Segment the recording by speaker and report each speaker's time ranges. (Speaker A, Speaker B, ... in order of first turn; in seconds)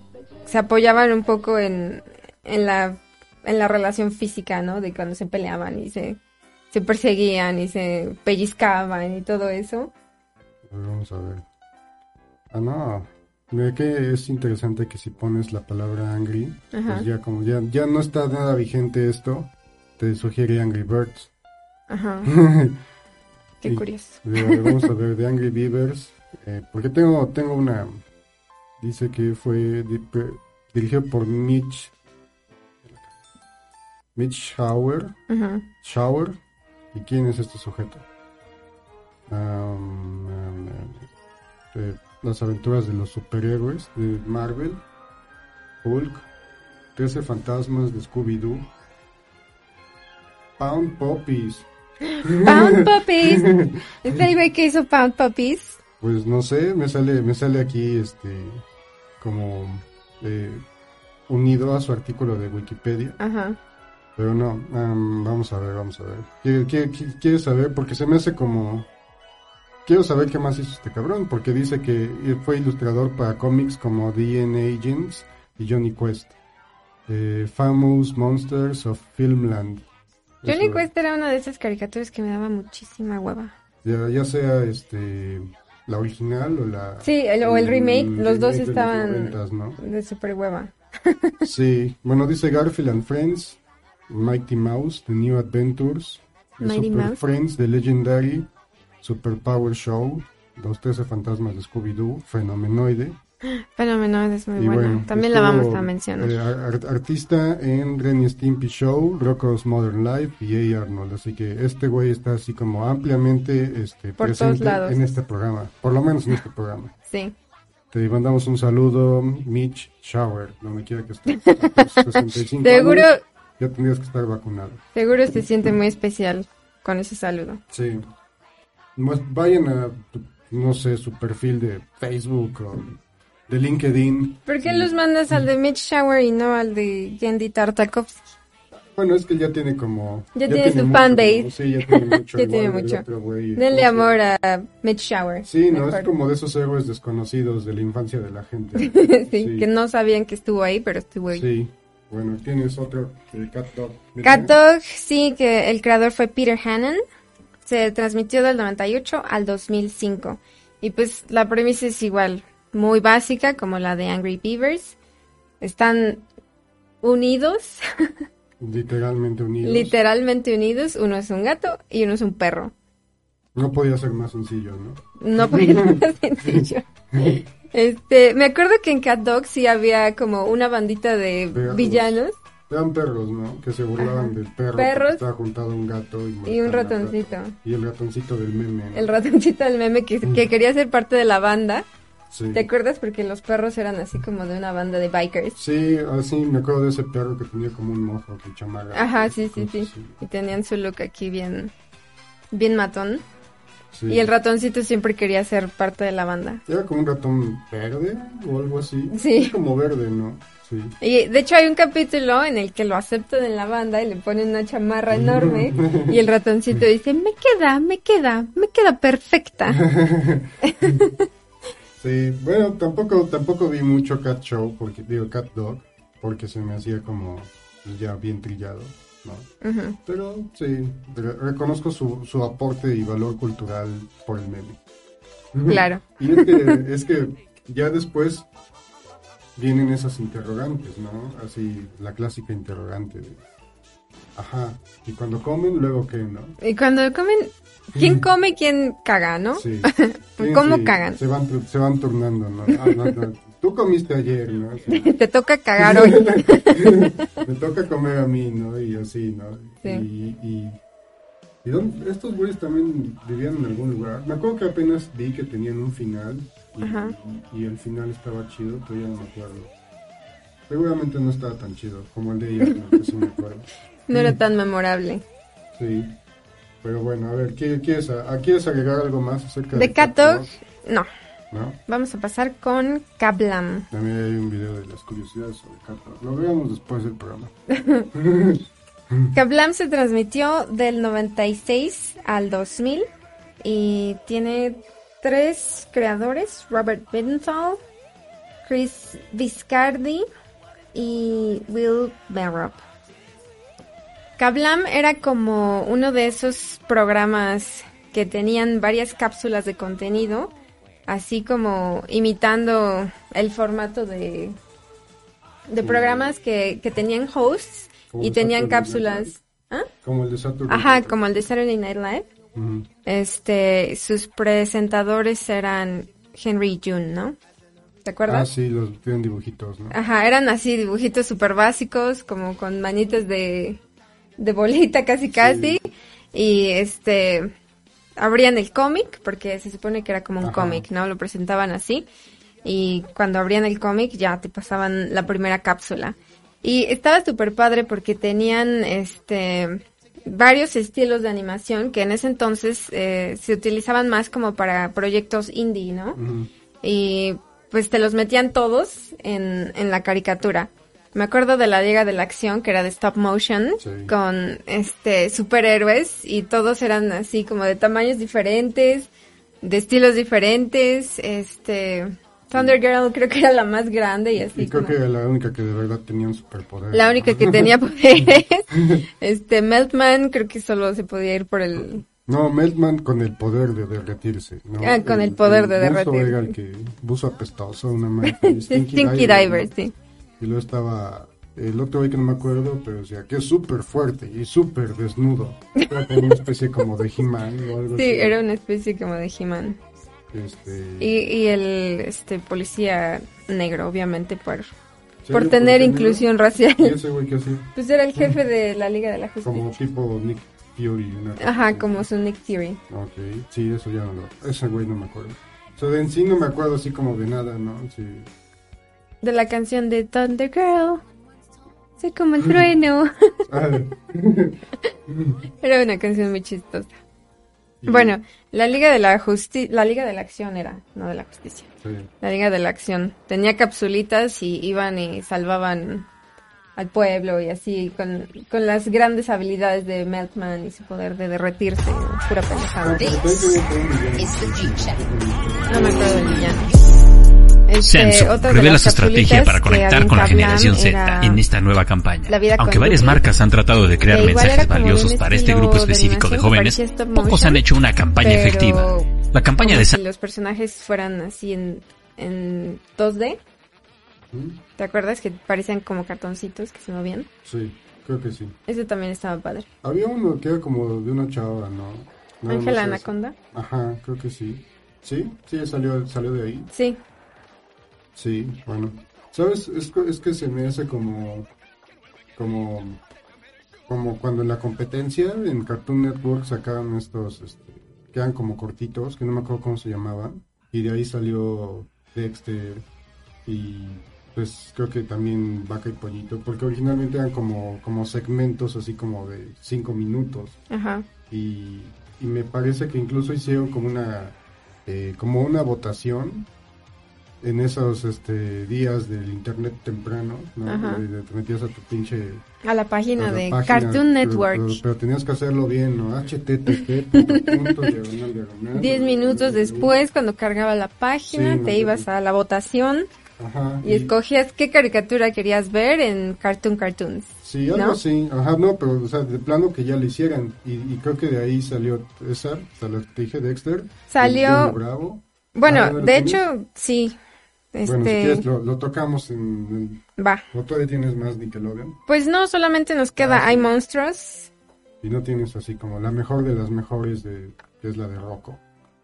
Speaker A: 0.5-6.2, 6.7-9.9, 16.7-17.1, 21.9-22.3, 23.6-24.9, 35.3-35.6, 52.4-53.5, 54.0-55.8, 63.2-63.6, 80.5-83.5, 87.0-91.3, 96.6-97.2, 103.5-106.3, 114.2-115.0, 117.1-117.3, 121.4-123.2, 124.9-127.6, 134.5-138.2, 140.3-143.0, 143.6-146.1, 148.8-151.4, 154.2-157.0, 157.6-165.0, 165.6-166.2, 167.0-167.8, 169.6-172.7, 175.2-182.4, 184.0-185.2, 186.4-187.5, 188.9-191.8, 192.5-195.6, 198.9-201.7, 202.5-203.2, 204.1-206.6, 209.1-209.5, 211.0-219.8, 220.6-221.1, 229.6-230.0, 235.7-236.8, 246.6-251.2, 252.7-253.1, 254.9-257.1, 266.8-267.1, 274.1-275.2, 279.7-281.1, 281.9-283.9, 287.7-288.1, 289.3-293.1, 293.6-297.8, 298.6-300.2, 300.9-302.8, 304.4-310.5, 311.1-314.6, 315.7-319.9, 320.7-322.3, 323.0-327.4, 328.0-328.5, 329.9-333.8, 334.4-337.5, 338.2-342.1, 342.6-356.2, 356.8-369.1, 369.6-374.9, 376.9-382.0, 384.8-386.5, 388.2-389.9, 397.9-399.8, 401.0-404.7, 405.3-407.0, 407.7-409.8, 411.4-412.8, 419.2-421.0, 422.0-423.4, 425.6-427.0, 427.9-431.7, 432.2-436.1, 436.8-443.2, 445.7-446.7, 447.7-451.4, 452.3-453.2, 454.1-457.6, 458.2-463.4, 464.8-467.3, 468.7-469.7, 472.5-473.4, 476.7-477.0, 500.7-501.1, 510.7-511.0, 512.6-514.8, 516.7-517.9, 518.7-523.1, 523.8-528.0, 534.1-534.8, 535.5-537.1, 537.7-538.4, 540.2-540.4, 542.1-544.5
Speaker B: 10.6-11.4, 12.5-21.3, 22.2-22.8, 23.6-28.0, 28.8-31.9, 32.8-33.1, 34.1-35.2, 35.8-36.4, 36.9-38.0, 39.3-41.1, 41.7-44.8, 45.8-46.3, 47.0-48.7, 50.6-51.7, 52.2-54.2, 56.0-58.6, 59.2-60.6, 61.3-63.2, 64.2-68.9, 69.8-76.3, 77.1-79.8, 80.4-80.9, 83.8-89.8, 91.4-98.5, 99.0-103.2, 104.5-116.9, 117.9-124.8, 127.7-128.1, 128.9-135.4, 138.9-144.2, 145.4-149.7, 151.3-154.5, 168.6-169.9, 173.5-177.4, 181.5-189.1, 192.3-192.7, 195.6-200.2, 203.9-204.3, 206.7-210.9, 215.1-216.2, 219.7-221.0, 222.0-229.5, 230.1-234.8, 235.5-238.5, 239.6-243.4, 244.3-246.6, 247.9-248.2, 249.5-255.1, 255.8-260.8, 261.6-269.7, 270.7-274.4, 275.7-276.2, 276.8-280.6, 281.5-281.8, 283.9-287.5, 288.1-289.4, 315.8-316.3, 318.1-319.3, 320.0-321.1, 322.5-322.9, 328.3-330.0, 335.3-335.8, 340.4-340.9, 356.1-356.5, 363.8-364.1, 372.5-372.8, 374.4-377.7, 378.2-379.0, 381.8-389.7, 390.4-398.4, 400.3-401.2, 405.2-406.2, 406.8-408.4, 409.4-412.1, 412.9-418.3, 423.5-425.4, 427.8-428.1, 431.8-432.1, 442.8-446.7, 464.3-464.6, 467.4-468.6, 469.8-476.7, 478.1-481.5, 482.4-483.0, 483.9-492.8, 493.4-500.6, 501.3-506.5, 507.4-512.4, 513.2-520.0, 521.3-522.1, 523.4-524.1, 527.4-536.4, 537.8-542.0, 543.2-543.7, 545.0-548.6
Speaker C: 447.8-459.9